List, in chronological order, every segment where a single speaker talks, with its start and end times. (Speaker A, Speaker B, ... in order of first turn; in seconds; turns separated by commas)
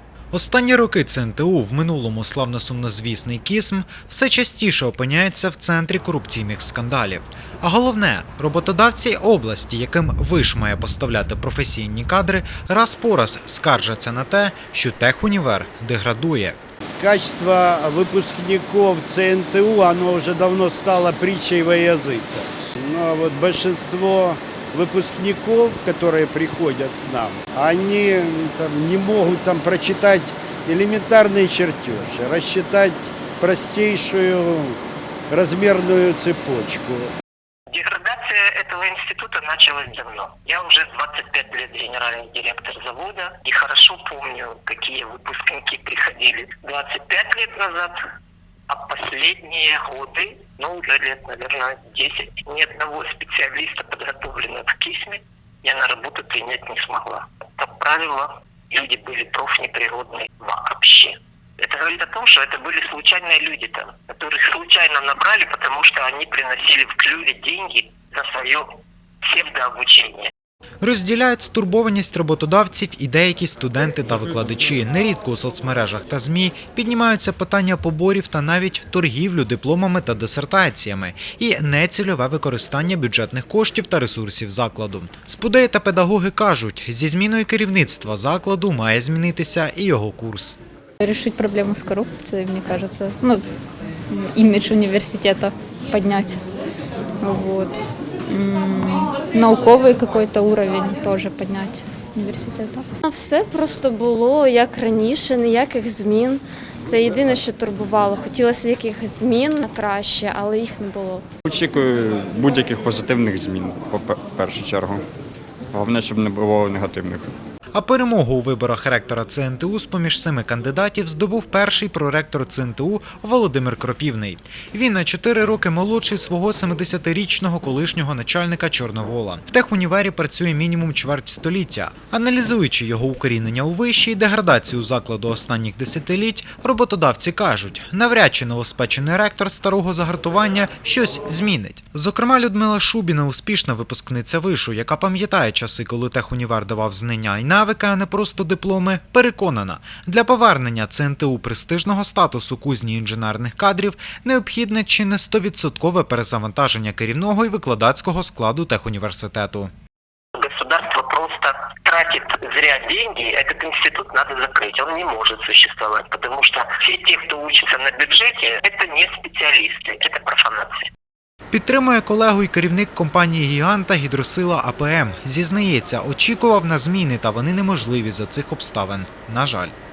Speaker A: 0.3-16.6, Speaker B: 17.0-34.8, Speaker B: 35.3-37.1, Speaker C: 37.7-48.0, Speaker C: 48.7-68.7, Speaker C: 69.2-70.3, Speaker A: 70.8-90.6, Speaker D: 91.0-93.4, Speaker D: 94.1-96.4, Speaker D: 97.2-102.9, Speaker E: 103.0-111.2, Speaker F: 111.4-115.0, Speaker F: 115.7-117.3, Speaker A: 117.7-159.7, Speaker C: 160.3-170.8, Speaker A: 171.5-179.7